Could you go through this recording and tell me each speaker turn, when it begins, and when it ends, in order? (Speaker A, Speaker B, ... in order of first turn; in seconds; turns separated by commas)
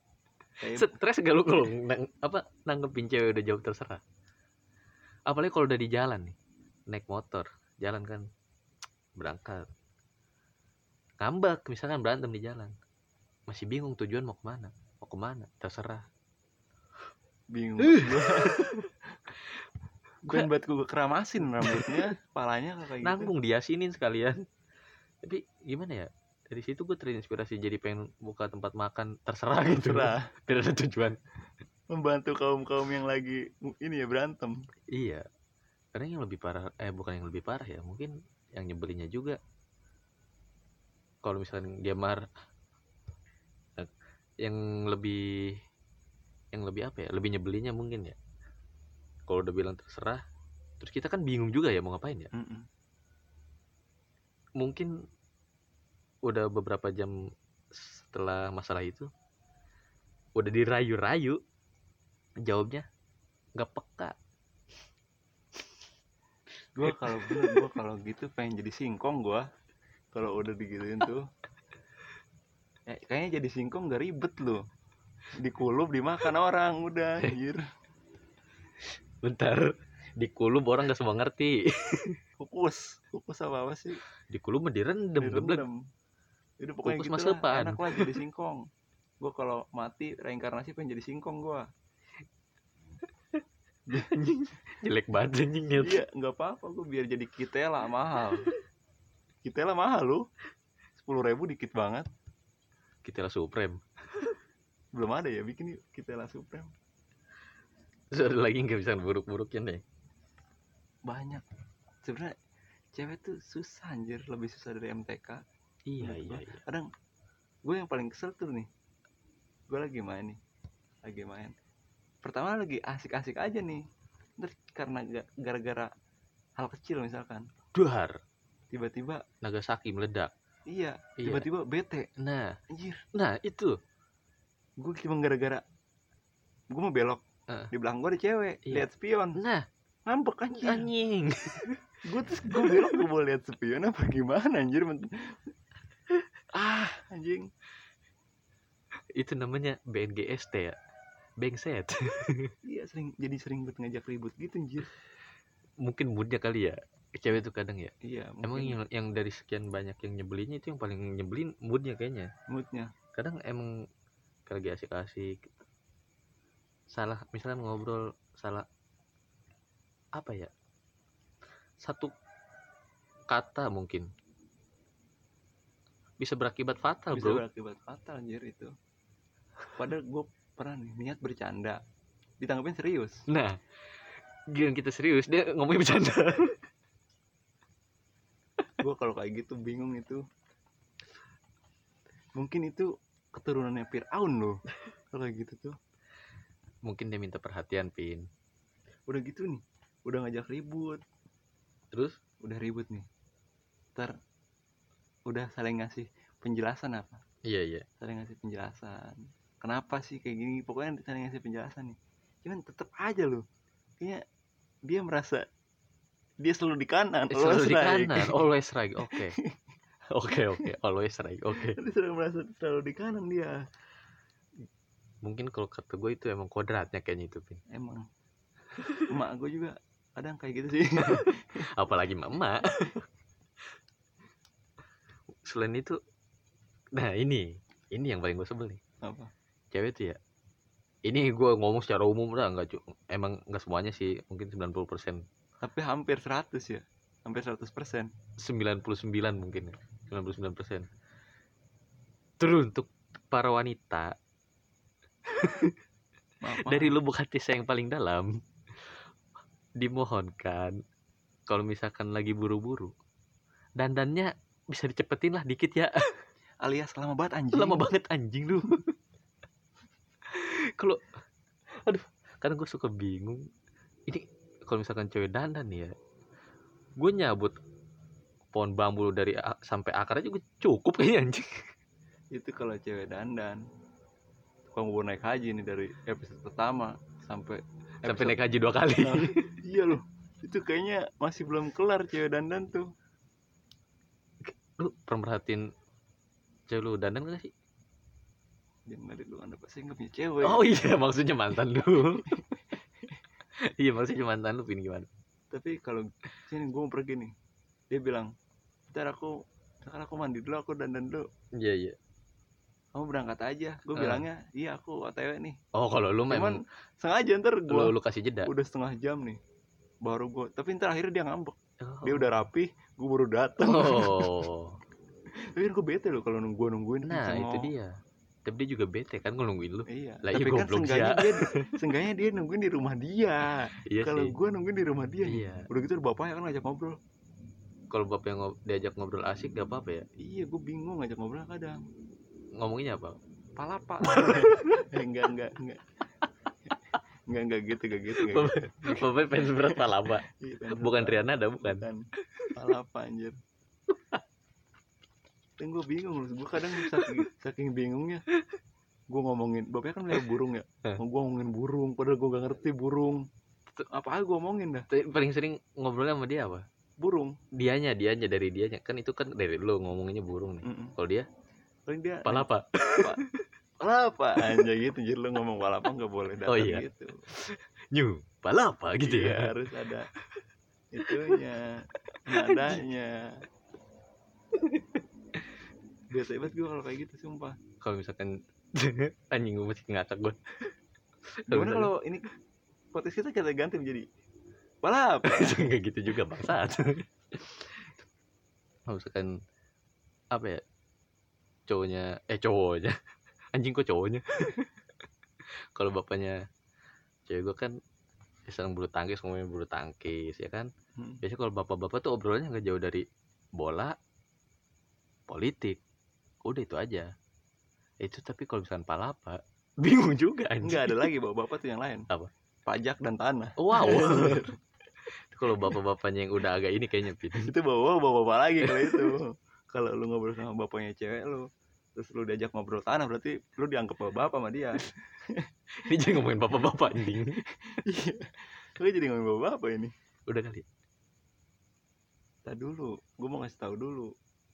Speaker A: 0.6-0.9, Speaker B: 0.7-4.0, Speaker B: 5.3-6.4, Speaker B: 6.9-8.2, Speaker B: 9.2-9.7, Speaker B: 11.2-12.8, Speaker B: 13.5-16.1, Speaker A: 17.5-18.7, Speaker B: 17.8-18.9, Speaker A: 20.2-23.3, Speaker B: 21.6-22.1, Speaker B: 23.0-24.4, Speaker B: 25.2-31.2, Speaker A: 29.7-30.3, Speaker A: 31.9-34.6, Speaker B: 34.9-35.2, Speaker B: 35.9-39.4, Speaker B: 41.2-42.3, Speaker B: 43.8-45.6, Speaker B: 46.5-48.2, Speaker B: 49.3-50.2, Speaker B: 50.8-52.3, Speaker A: 52.3-52.7, Speaker B: 54.6-54.9, Speaker B: 56.2-57.2, Speaker B: 57.7-59.1, Speaker B: 60.4-61.4, Speaker B: 62.4-62.9, Speaker B: 63.6-64.2, Speaker A: 66.8-69.5, Speaker B: 66.8-67.6, Speaker A: 70.1-71.3, Speaker A: 72.9-74.6, Speaker A: 75.3-77.6, Speaker B: 79.2-82.2, Speaker A: 82.4-84.0, Speaker B: 84.3-85.7, Speaker A: 85.2-85.8, Speaker A: 86.6-88.7, Speaker B: 86.8-88.1, Speaker A: 89.2-91.7, Speaker B: 93.9-96.0, Speaker A: 95.8-98.5, Speaker A: 99.4-100.2, Speaker A: 101.0-102.1, Speaker B: 103.0-104.4, Speaker A: 105.0-106.7, Speaker B: 108.1-109.8, Speaker A: 111.1-111.4, Speaker A: 112.0-112.3, Speaker A: 113.0-115.4, Speaker B: 115.9-116.6, Speaker A: 116.0-116.9, Speaker A: 117.7-118.7, Speaker A: 119.7-120.4, Speaker A: 121.0-121.5, Speaker A: 122.2-123.8, Speaker A: 124.4-125.9, Speaker A: 126.6-127.5, Speaker B: 127.7-128.2, Speaker A: 128.7-129.2, Speaker B: 129.4-130.3, Speaker A: 130.7-132.1, Speaker B: 131.2-131.5, Speaker B: 132.2-132.6, Speaker A: 132.7-133.0, Speaker B: 133.1-133.8, Speaker A: 134.8-135.6, Speaker A: 136.7-137.2, Speaker A: 137.7-139.4, Speaker B: 138.7-139.7, Speaker A: 140.1-140.9, Speaker B: 140.6-141.8, Speaker A: 142.0-145.4, Speaker B: 142.5-143.0, Speaker A: 146.5-147.5, Speaker B: 149.2-150.8, Speaker B: 151.4-152.5, Speaker A: 152.7-154.9, Speaker B: 155.8-162.3, Speaker A: 158.0-158.8, Speaker A: 162.5-162.9, Speaker B: 163.1-163.7, Speaker B: 164.5-165.5, Speaker B: 166.9-168.7, Speaker B: 170.2-170.5, Speaker B: 171.8-172.1, Speaker B: 173.3-174.1, Speaker B: 176.2-177.4, Speaker A: 177.1-178.7, Speaker A: 179.7-181.8, Speaker A: 182.4-183.2, Speaker B: 183.3-183.6, Speaker B: 184.5-186.6, Speaker A: 188.8-190.2, Speaker A: 192.4-194.6, Speaker A: 195.1-195.8, Speaker B: 196.9-198.3, Speaker A: 199.1-201.0, Speaker B: 201.9-202.2, Speaker A: 202.4-203.1, Speaker A: 205.3-207.2, Speaker B: 207.4-207.9, Speaker A: 208.0-213.4, Speaker A: 214.9-215.4, Speaker A: 216.4-218.4, Speaker B: 217.3-219.4, Speaker A: 219.0-219.6, Speaker B: 220.1-221.8, Speaker A: 221.6-223.6, Speaker B: 225.2-227.6, Speaker A: 227.7-228.1, Speaker A: 229.1-231.7, Speaker B: 231.0-233.1, Speaker B: 235.4-236.0, Speaker B: 236.9-238.8, Speaker A: 239.0-239.3, Speaker B: 239.7-240.2, Speaker B: 241.1-245.2, Speaker A: 245.6-248.1, Speaker B: 248.4-250.9, Speaker B: 252.4-254.1, Speaker B: 255.3-255.8, Speaker A: 256.4-257.0, Speaker B: 256.6-259.0, Speaker B: 259.8-260.8, Speaker B: 261.5-262.9, Speaker B: 263.8-266.2, Speaker A: 266.6-267.9, Speaker B: 267.5-268.9, Speaker B: 270.3-271.1, Speaker B: 271.7-273.4, Speaker B: 274.1-275.9, Speaker B: 277.0-277.6, Speaker B: 278.5-281.7, Speaker A: 282.3-283.6, Speaker A: 284.7-288.4, Speaker B: 288.1-289.5, Speaker A: 289.0-292.9, Speaker B: 294.4-295.7, Speaker B: 296.7-297.5, Speaker A: 298.9-300.8, Speaker B: 300.4-302.4, Speaker B: 303.6-305.1, Speaker A: 305.5-307.3, Speaker A: 307.9-308.3, Speaker A: 308.9-311.3, Speaker B: 311.6-312.0, Speaker A: 312.9-315.6, Speaker B: 314.0-314.3, Speaker B: 315.7-316.6, Speaker A: 316.3-319.4, Speaker B: 317.7-318.5, Speaker A: 320.1-324.5, Speaker B: 321.8-322.3, Speaker B: 323.6-324.8, Speaker A: 325.6-327.7, Speaker B: 327.1-327.9, Speaker B: 328.5-331.8, Speaker A: 329.9-337.0, Speaker B: 333.9-334.4, Speaker B: 335.3-335.7, Speaker B: 337.9-340.1, Speaker A: 340.2-341.8, Speaker B: 342.6-343.2, Speaker A: 343.6-345.9, Speaker B: 344.0-344.9, Speaker A: 347.3-353.4, Speaker B: 348.2-352.6, Speaker B: 353.9-354.2, Speaker A: 355.6-358.2, Speaker B: 356.6-357.3, Speaker A: 359.1-363.3, Speaker A: 363.9-364.9, Speaker B: 364.9-366.7, Speaker A: 367.0-367.4, Speaker B: 367.5-371.3, Speaker A: 370.6-370.9, Speaker A: 371.9-373.2, Speaker B: 372.2-373.5, Speaker A: 373.8-377.3, Speaker B: 374.4-374.7, Speaker B: 376.5-379.5, Speaker A: 379.0-380.1, Speaker B: 380.2-380.4, Speaker A: 380.9-383.4, Speaker B: 381.0-381.4, Speaker B: 382.1-382.8, Speaker B: 384.5-385.0, Speaker A: 386.1-387.6, Speaker B: 387.8-390.8, Speaker B: 391.4-391.9, Speaker A: 391.5-392.3, Speaker A: 392.9-394.1, Speaker A: 394.8-395.7, Speaker B: 395.2-398.0, Speaker B: 398.9-399.3, Speaker B: 400.3-400.6, Speaker B: 401.7-403.0, Speaker B: 403.5-404.7, Speaker B: 405.4-406.4, Speaker B: 407.3-407.8, Speaker B: 408.5-410.7, Speaker A: 411.0-411.2, Speaker B: 411.2-414.0, Speaker B: 415.3-415.8, Speaker B: 416.4-417.1, Speaker B: 418.0-421.1, Speaker A: 420.6-422.1, Speaker A: 422.7-424.6, Speaker B: 423.6-424.5, Speaker B: 425.1-427.5, Speaker A: 427.4-435.5, Speaker B: 428.6-429.1, Speaker B: 435.8-437.4, Speaker A: 436.9-439.9, Speaker B: 440.3-440.7, Speaker A: 442.5-444.1